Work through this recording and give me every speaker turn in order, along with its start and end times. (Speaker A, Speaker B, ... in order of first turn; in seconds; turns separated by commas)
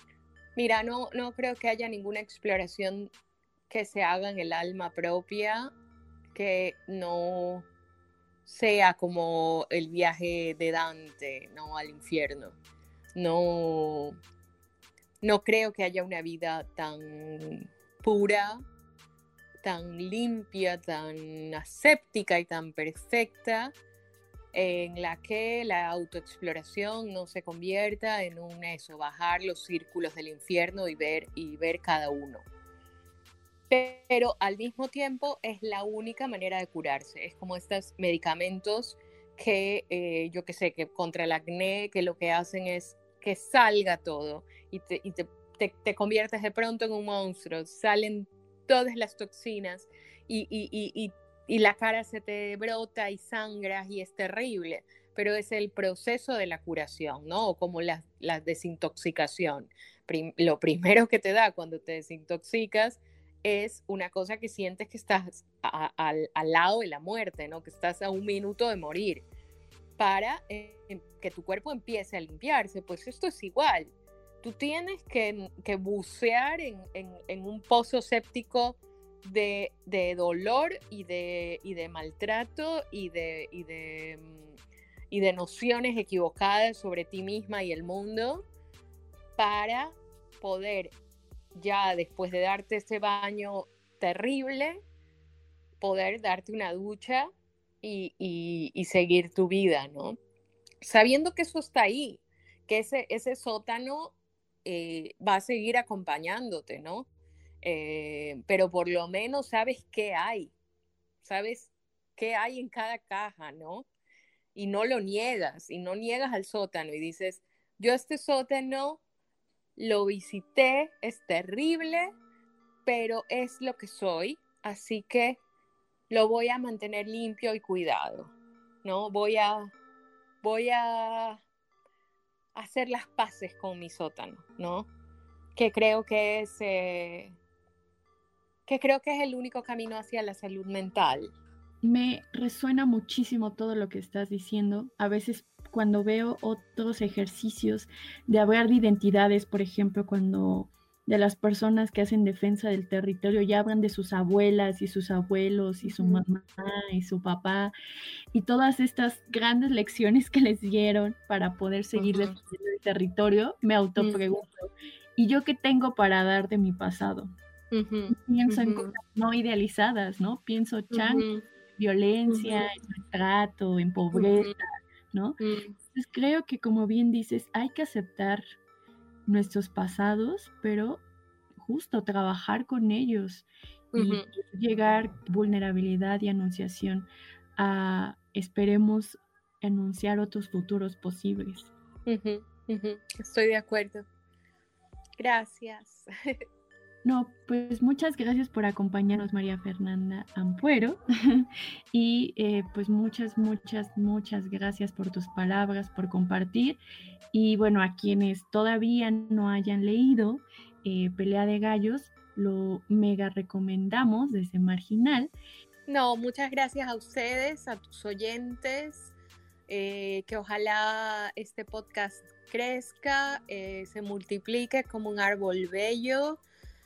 Speaker A: 0.6-3.1, Speaker A: 3.7-5.7, Speaker A: 6.3-7.7, Speaker A: 8.4-12.6, Speaker A: 13.1-14.2, Speaker A: 15.2-18.6, Speaker A: 19.6-23.7, Speaker A: 24.5-32.4, Speaker A: 33.7-69.2, Speaker A: 70.0-73.9, Speaker A: 74.4-84.5, Speaker A: 85.1-88.4, Speaker A: 89.4-90.9, Speaker A: 91.5-94.8, Speaker A: 95.8-97.3, Speaker A: 97.8-100.2, Speaker A: 100.8-104.1, Speaker A: 104.6-107.0, Speaker A: 107.6-110.5, Speaker A: 111.2-113.8, Speaker A: 114.5-119.0, Speaker A: 119.8-122.1, Speaker A: 122.8-125.4, Speaker A: 126.1-128.3, Speaker A: 128.8-129.7, Speaker A: 130.4-131.4, Speaker A: 132.5-134.9, Speaker A: 135.6-137.3, Speaker A: 138.7-141.3, Speaker B: 141.8-157.7, Speaker A: 155.8-156.2, Speaker B: 158.3-167.3, Speaker A: 161.9-162.3, Speaker A: 167.7-168.9, Speaker B: 168.1-175.4, Speaker A: 170.9-171.4, Speaker A: 172.3-172.6, Speaker A: 174.1-174.5, Speaker A: 175.4-175.7, Speaker B: 175.9-178.4, Speaker B: 179.3-181.0, Speaker B: 181.6-191.7, Speaker A: 183.9-184.2, Speaker A: 192.1-194.1, Speaker A: 195.2-196.4, Speaker B: 197.0-206.8, Speaker B: 207.3-215.3, Speaker A: 215.9-219.1, Speaker A: 219.7-226.4